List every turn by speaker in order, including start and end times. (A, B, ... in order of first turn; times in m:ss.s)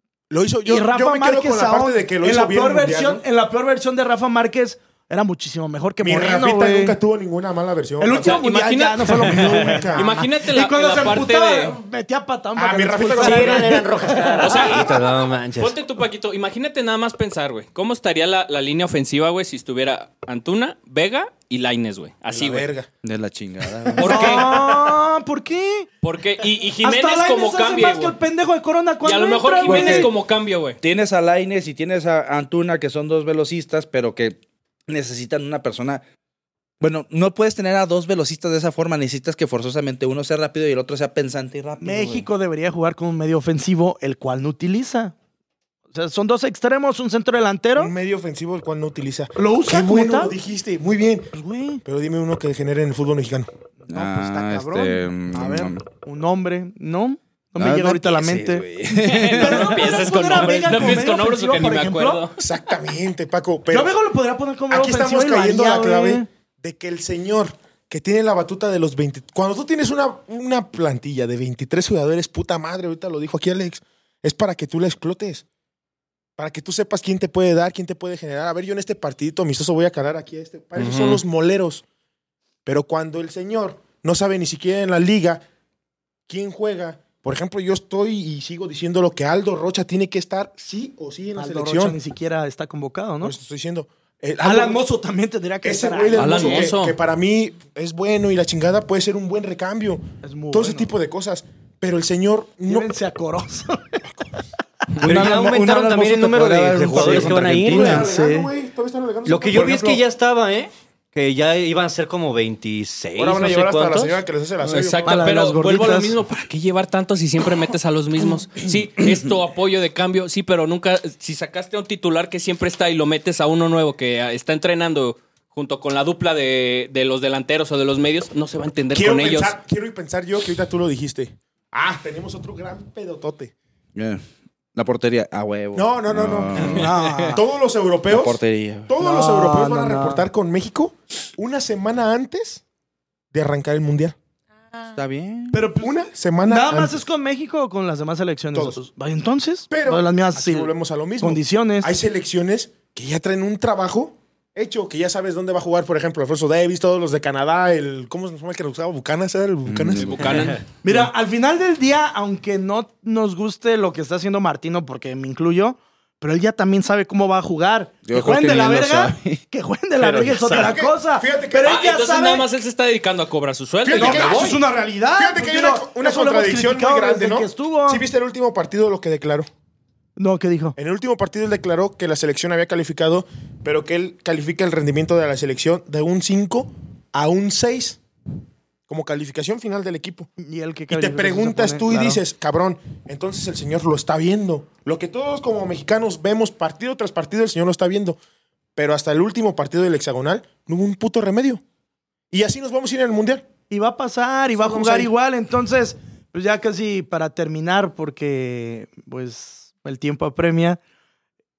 0:00.3-0:03.2 A
0:00.6-0:07.0 B
0:06.0-0:08.4 A
0:08.0-0:14.8 B
0:08.2-0:11.8 C
0:09.2-0:10.1 A
0:12.6-0:14.2 A
0:13.1-0:15.8 D
0:14.4-0:15.0 C
0:15.6-0:22.7 C
0:22.3-0:22.9 A
0:23.0-0:24.6 E
0:24.0-0:24.9 C
0:24.0-0:25.9 B
0:26.0-0:28.2 C
0:26.8-0:30.1 B
0:29.0-0:30.8 C
0:29.6-0:30.1 E
0:30.8-0:36.0 E
0:36.8-0:42.3 E
0:41.8-0:45.1 B
0:45.9-0:47.9 B
0:47.8-0:51.3 A
0:49.4-0:50.3 B
0:51.3-0:51.8 B
0:51.8-0:53.5 A
0:53.8-0:58.6 B
0:53.9-0:55.8 E
0:57.6-1:00.0 E
0:58.9-1:02.4 C
0:59.3-1:02.3 B
1:02.4-1:03.9 A
1:03.7-1:06.3 B
1:04.7-1:15.4 A
1:16.4-1:21.8 A
1:20.8-1:21.2 C
1:22.6-1:25.4 A
1:26.3-1:32.0 A
1:31.4-1:33.3 B
1:33.2-1:34.8 A
1:34.4-1:36.7 B
1:35.6-1:42.9 A
1:36.1-1:37.0 C
1:40.2-1:40.9 B
1:42.7-1:44.1 B
1:45.0-1:48.1 E
1:45.0-1:48.3 D
1:46.9-1:50.0 A
1:49.2-1:54.2 D
1:53.2-1:55.2 A
1:54.6-2:09.6 C
1:55.0-1:56.2 B
2:08.9-2:13.5 A
2:13.9-2:14.2 E
2:14.7-2:16.9 E
2:15.7-2:22.6 A
2:16.6-2:17.4 B
2:18.1-2:18.9 E
2:19.0-2:20.2 B
2:23.3-2:24.1 A
2:24.9-2:25.6 E
2:25.5-2:31.9 B
2:25.8-2:27.0 A
2:29.7-2:40.5 A
2:39.6-2:40.4 E
2:40.0-2:40.6 C
2:40.8-2:52.5 B
2:48.0-2:49.4 E
2:50.2-2:50.7 D
2:50.3-2:51.8 A
2:51.6-2:54.6 C
2:53.8-2:54.6 A
2:53.9-2:58.0 B
2:55.2-2:59.5 A
3:00.2-3:00.8 B
3:00.8-3:08.0 A
3:08.9-3:10.3 A
3:10.4-3:12.2 B
3:10.9-3:18.2 A
3:18.8-3:21.6 A
3:22.3-3:23.5 A
3:23.7-3:30.8 B
3:24.6-3:25.1 A